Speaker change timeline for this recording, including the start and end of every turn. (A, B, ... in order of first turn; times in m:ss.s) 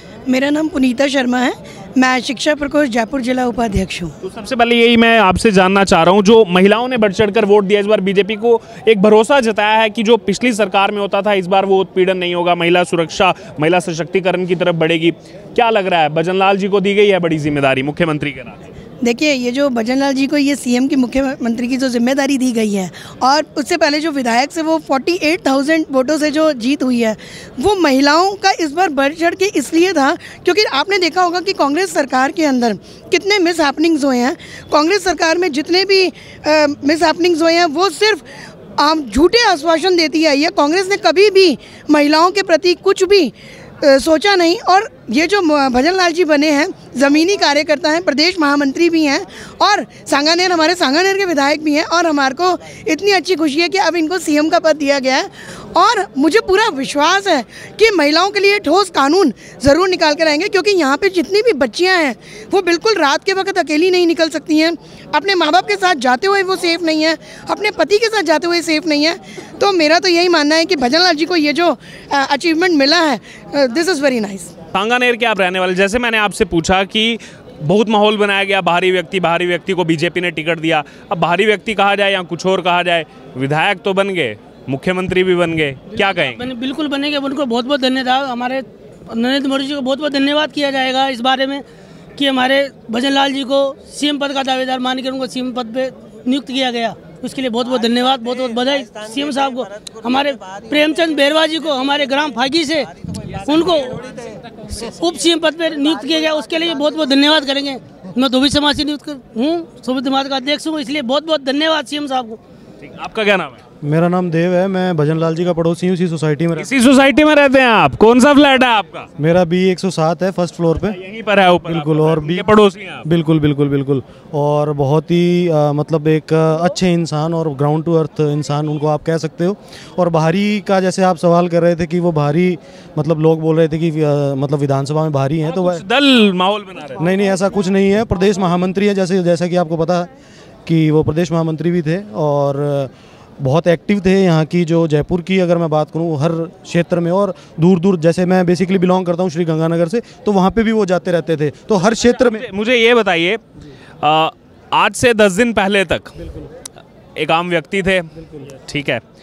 0:00.3-0:04.1 A
0:04.2-0:18.6 B
0:19.0-0:38.3 A
0:38.8-1:14.5 A
1:14.7-1:26.5 B
1:25.9-1:31.6 C
1:32.2-1:44.1 C
1:44.7-1:52.4 C
1:52.8-1:53.6 B
1:53.8-1:56.7 D
1:56.6-1:59.1 B
1:59.2-2:01.0 D
2:00.8-2:03.0 B
2:01.6-2:02.5 D
2:03.0-2:15.8 D
2:15.4-2:17.0 B
2:17.0-2:20.1 D
2:20.7-2:32.5 D
2:32.0-2:33.4 B
2:34.0-2:36.2 B
2:37.2-2:38.1 B
2:38.7-2:39.0 B